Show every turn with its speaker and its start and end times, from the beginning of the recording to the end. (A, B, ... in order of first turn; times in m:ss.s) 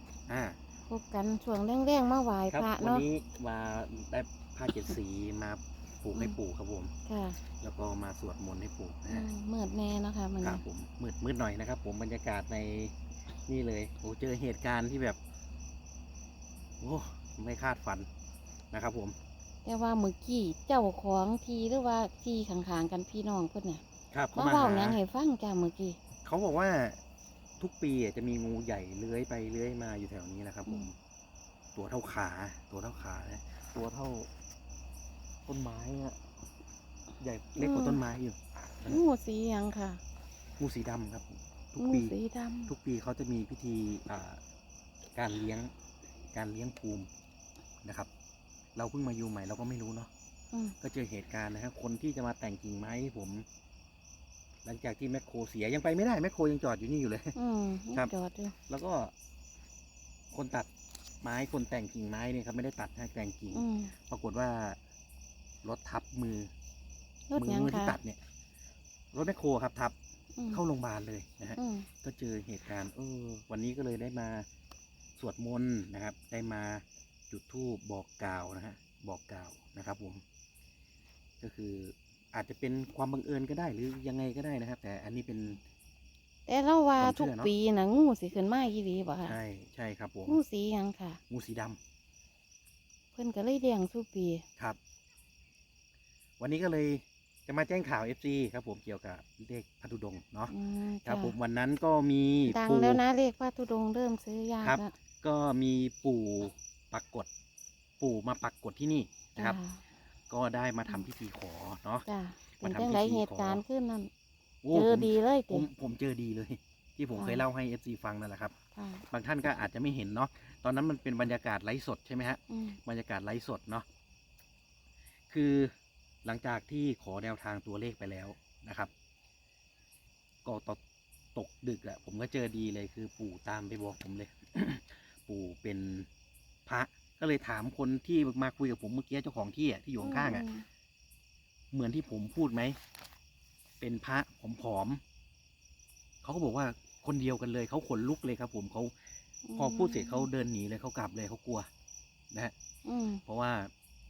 0:00.3-0:00.6 A
0:00.9-0:03.0 B
0:02.5-0:06.9 A
0:07.1-0:07.4 B
0:07.6-0:09.3 A
0:09.1-0:10.6 B
0:10.4-0:12.9 A
0:13.5-0:15.2 A
0:16.8-0:18.1 A
0:18.7-0:19.2 A
0:19.6-0:23.8 B
0:24.1-0:25.0 A
0:24.3-0:26.0 B
0:26.2-0:27.0 A
0:27.6-0:31.0 A
0:31.8-0:34.3 A
0:35.5-0:36.2 A
0:37.2-0:39.0 A
0:37.6-0:38.0 B
0:38.8-0:40.0 B
0:40.6-0:42.1 A
0:41.8-0:42.7 B
0:42.7-0:44.4 A
0:45.2-0:45.7 A
0:46.3-0:47.1 A
0:47.8-0:48.1 A
0:48.8-0:50.1 A
0:50.8-0:53.4 A
0:54.6-0:57.4 A
0:57.4-0:58.6 B
0:58.7-0:59.1 A
1:00.3-1:00.7 A
1:01.2-1:04.8 A
1:03.5-1:03.9 B
1:05.6-1:06.5 A
1:07.3-1:08.0 B
1:07.4-1:08.2 A
1:09.1-1:10.0 A
1:10.4-1:10.6 B
1:10.5-1:14.5 A
1:11.6-1:11.9 B
1:15.2-1:20.2 A
1:21.4-1:25.6 A
1:26.5-1:29.4 B
1:27.0-1:27.5 A
1:29.3-1:30.4 A
1:30.3-1:31.2 B
1:31.3-1:31.8 A
1:33.2-1:34.4 B
1:36.4-1:40.5 A
1:40.5-1:41.4 B
1:41.0-1:43.0 A
1:42.5-1:44.9 B
1:44.6-1:47.3 A
1:48.0-1:49.6 A
1:49.4-1:49.8 B
1:50.3-1:52.1 A
1:52.1-1:54.1 B
1:52.6-1:53.6 A
1:54.6-1:58.6 A
1:54.7-1:55.7 B
1:57.2-1:57.4 B
1:58.8-1:59.0 B
1:59.1-2:03.8 A
2:02.5-2:02.8 B
2:05.3-2:05.7 A
2:06.2-2:08.9 A
2:10.4-2:10.8 A
2:11.4-2:16.1 A
2:16.7-2:20.5 A
2:20.0-2:20.7 B
2:21.7-2:22.8 A
2:23.8-2:25.0 A
2:26.2-2:28.9 A
2:29.4-2:30.3 B
2:29.6-2:31.7 A
2:32.9-2:33.2 B
2:33.3-2:33.7 A